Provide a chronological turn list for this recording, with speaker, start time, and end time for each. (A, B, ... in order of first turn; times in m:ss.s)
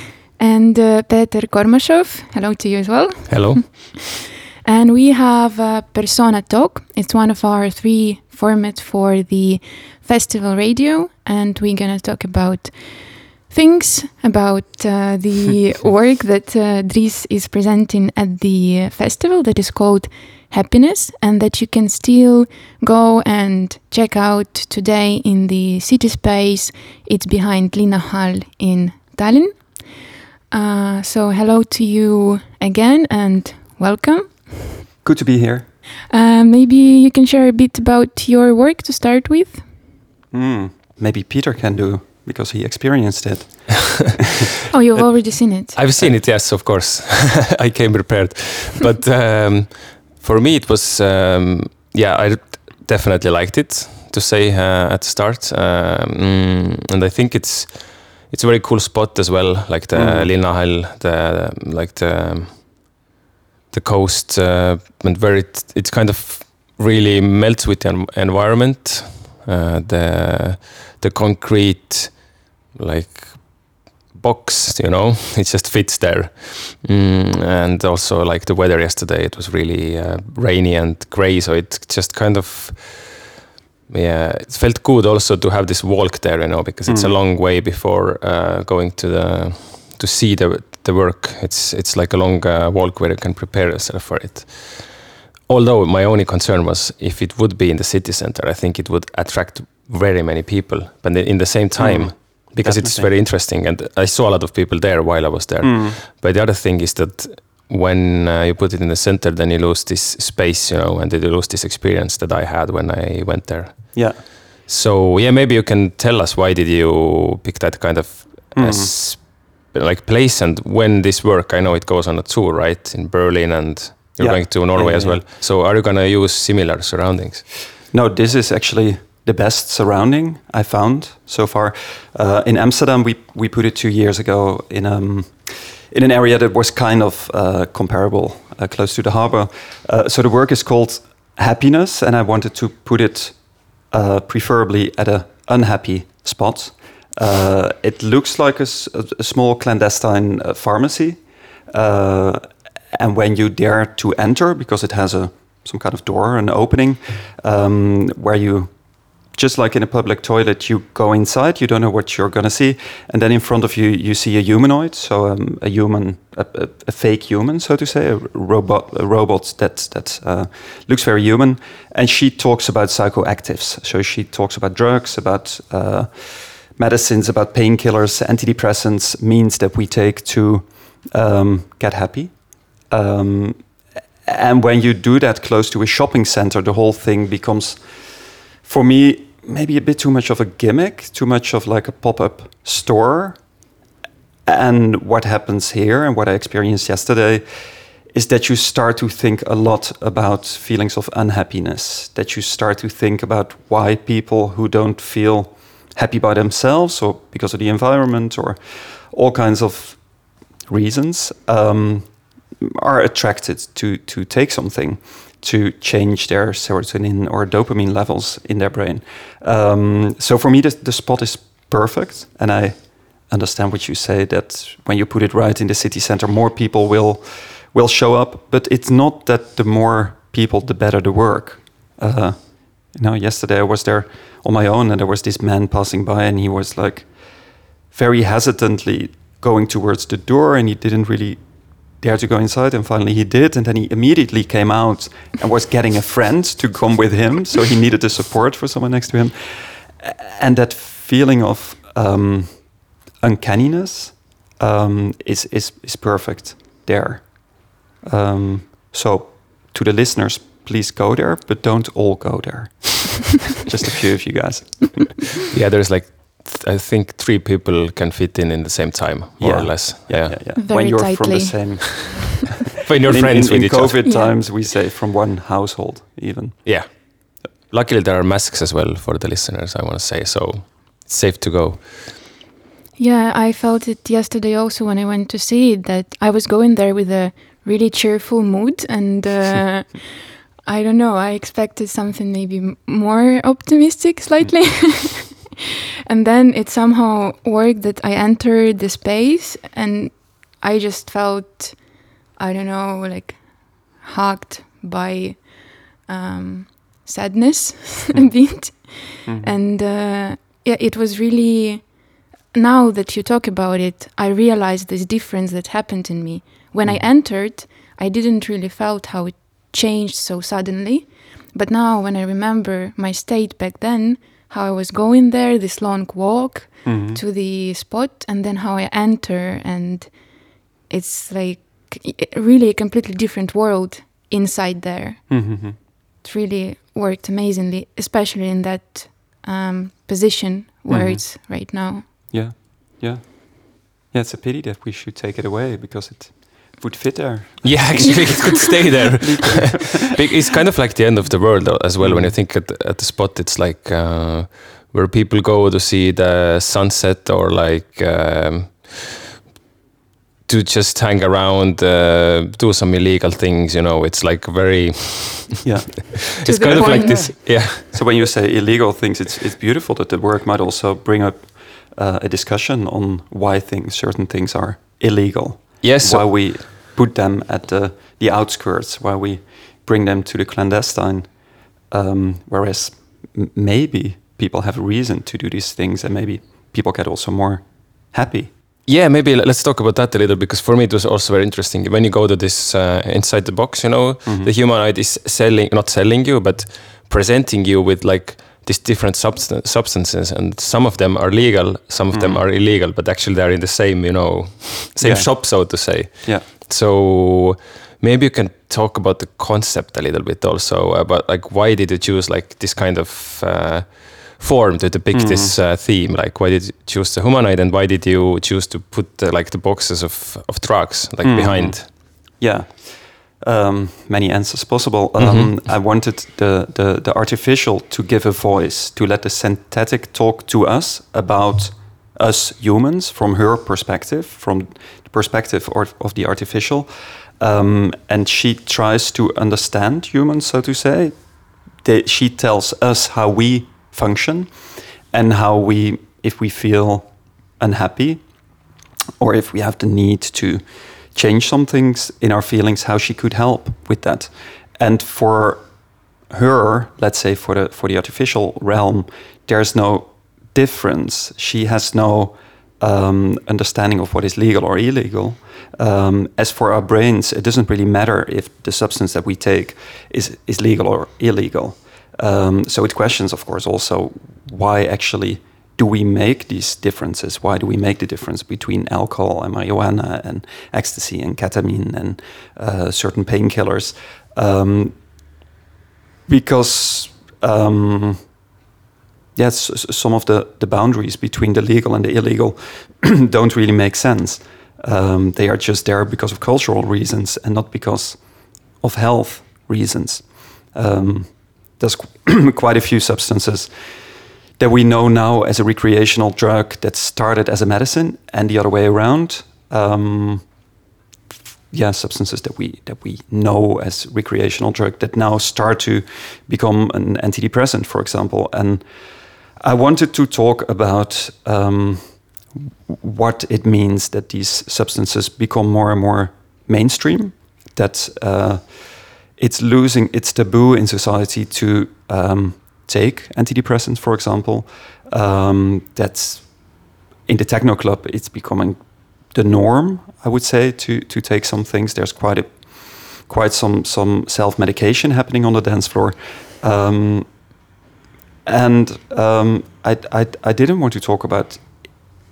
0:00.4-0:34.9 A
0:03.3-0:03.7 B
0:35.0-0:35.7 C
0:36.1-0:39.7 A
0:40.3-0:44.2 C
0:44.7-0:45.8 A
0:45.7-1:02.9 B
0:59.9-1:00.4 C
1:03.7-1:23.3 B
1:23.9-2:07.6 B
1:26.9-1:27.1 C
1:41.8-1:43.1 C
1:45.6-1:46.0 C
1:53.9-1:54.2 C
1:58.6-1:58.9 C
2:04.2-2:05.2 C
2:07.9-3:13.4 C
3:14.5-3:30.1 C
3:30.7-3:57.2 C
3:57.9-4:25.2 C
4:25.5-4:30.4 B
4:29.4-4:32.5 C
4:30.6-4:32.3 A
4:32.7-4:34.1 B
4:33.1-4:37.0 C
4:34.0-4:34.4 A
4:36.6-4:42.2 B
4:43.0-4:55.6 A
4:56.1-5:42.1 A
5:08.1-5:08.5 C
5:09.2-5:09.5 C
5:26.8-5:27.2 C
5:35.3-5:35.8 C
5:40.9-5:41.2 C
5:42.1-5:50.0 C
5:47.6-5:59.2 B
5:48.2-5:48.6 A
5:52.0-5:52.4 C
6:00.5-6:05.6 B
6:05.6-6:28.5 C
6:06.4-6:08.0 B
6:06.4-6:07.3 A
6:15.8-6:16.7 B
6:28.9-7:01.9 B
6:34.2-6:34.5 C
6:42.1-6:42.4 C
6:45.0-6:46.5 C
6:55.1-6:55.6 C
7:01.2-7:28.3 C
7:05.2-7:05.5 B
7:29.2-7:35.7 C
7:36.3-8:05.0 C
8:06.3-8:08.3 C
8:09.4-8:30.5 C
8:31.7-8:38.9 C
8:39.6-8:56.7 C
8:57.3-8:58.8 C
8:59.3-9:07.4 C
9:08.4-9:11.8 C